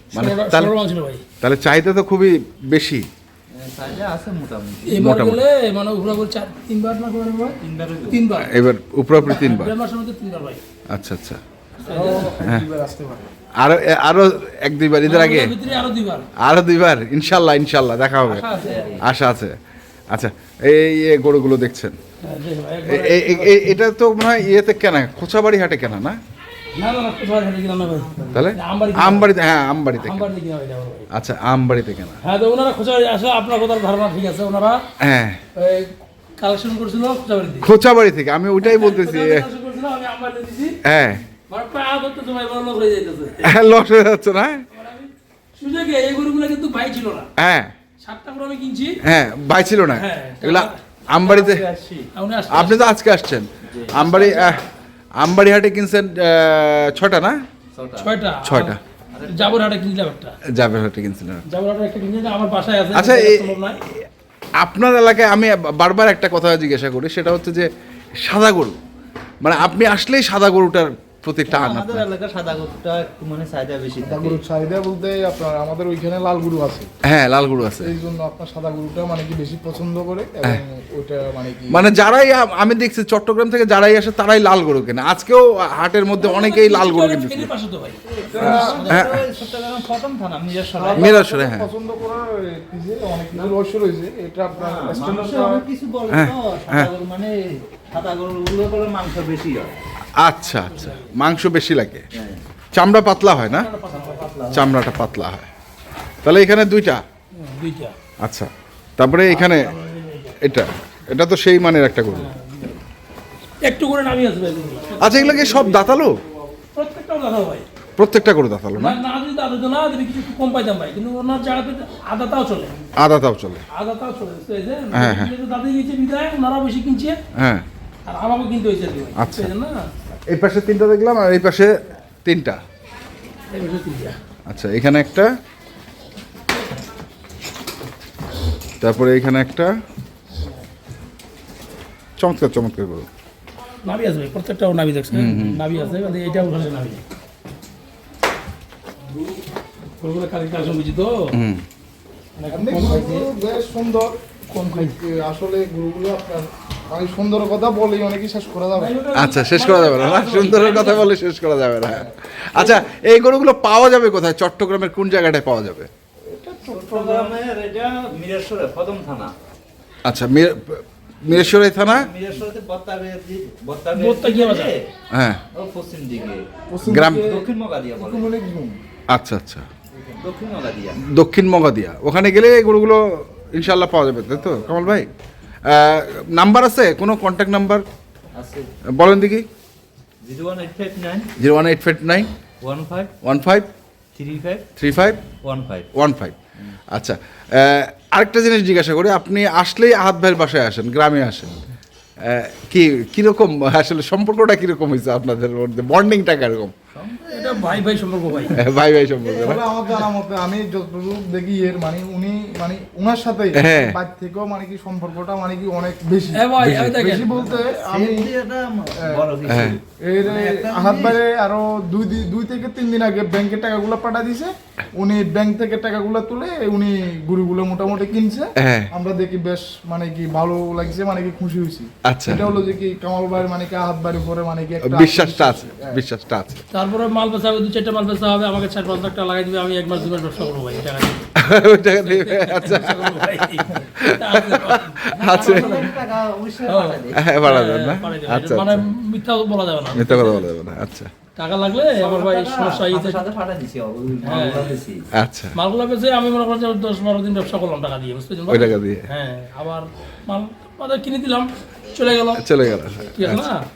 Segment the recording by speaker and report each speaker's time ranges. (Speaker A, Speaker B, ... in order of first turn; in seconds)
Speaker A: 0.1-0.7, 1.4-3.1, 4.9-5.4, 8.4-9.7, 10.9-11.4, 13.6-15.6, 16.4-18.5, 19.0-19.6, 20.1-22.0, 22.9-26.2, 28.3-30.3, 31.1-32.2, 35.0-35.4, 37.6-39.5, 40.9-41.2, 43.4-44.6, 47.4-47.7, 49.0-51.6, 52.5-54.6, 55.2-57.4, 58.4-58.8, 60.5-61.4, 62.9-64.0, 64.6-68.8, 69.4-72.1, 77.0-77.9, 81.7-87.5, 88.4-89.2, 91.0-91.7, 96.1-96.9, 100.2-102.1, 102.7-103.7, 104.5-105.5, 106.2-107.0, 108.2-109.7, 110.4-112.3, 115.0-116.2, 118.0-119.0, 123.0-123.6, 124.9-125.3, 127.3-127.7, 129.2-129.5, 130.3-131.7, 132.2-132.6, 134.5-135.3, 138.8-139.7, 142.2-143.1, 145.1-145.6, 151.3-151.6, 159.1-165.9, 170.1-172.1, 175.1-175.4, 176.8-177.3, 179.1-179.7, 181.0-185.1, 185.7-187.8, 188.9-189.5, 191.4-192.3, 193.2-193.7, 194.8-195.2, 195.9-196.4, 196.9-201.5, 202.2-206.7, 208.5-209.7, 213.6-214.0, 216.6-216.9, 219.5-219.8, 228.6-228.9, 232.1-232.4, 234.8-236.6, 241.4-245.9, 247.1-248.8, 249.9-251.1, 255.2-255.5, 258.5-259.0, 262.4-263.5
Speaker B: 0.1-1.2, 4.9-7.6, 8.1-8.6, 9.2-10.6, 11.9-12.2, 15.1-16.3, 22.2-23.8, 26.8-29.3, 30.0-31.1, 32.2-34.8, 35.6-37.7, 38.6-40.8, 41.5-43.5, 44.7-47.3, 48.0-49.0, 49.9-50.8, 52.1-52.9, 58.0-60.4, 61.5-63.8, 86.2-88.0, 100.5-101.1, 103.5-104.4, 107.3-107.9, 109.3-110.4, 112.1-112.8, 113.6-115.9, 116.7-117.7, 118.8-122.7, 123.7-127.2, 128.1-129.8, 133.5-134.2, 143.8-147.0, 150.0-151.3, 152.4-153.3, 154.5-155.0, 158.8-161.1, 173.9-174.8, 207.3-208.6, 216.3-217.3, 236.7-245.9, 246.7-250.5, 251.4-253.2, 254.2-254.8, 255.6-262.4, 263.1-263.6
Speaker C: 3.5-4.9, 7.6-8.3, 11.8-12.5, 18.3-19.0, 27.9-28.5, 51.2-52.1, 53.7-54.3, 57.7-58.2, 59.1-59.7, 71.5-74.4, 88.3-91.1, 94.5-99.8, 102.2-102.4, 103.9-104.9, 166.6-169.3, 171.3-174.9, 175.5-176.4, 177.2-178.3, 180.1-181.0, 184.4-185.1, 188.3-188.7, 190.2-191.3, 192.6-193.1, 194.2-194.7, 195.4-195.9, 207.0-209.7, 217.3-221.2, 245.3-247.4, 251.9-255.1
Speaker D: 11.9-13.2, 74.0-76.9, 77.8-81.8, 88.3-89.0, 90.7-95.7, 152.5-158.9, 166.3-167.4, 176.7-178.8, 209.4-218.3, 219.0-236.0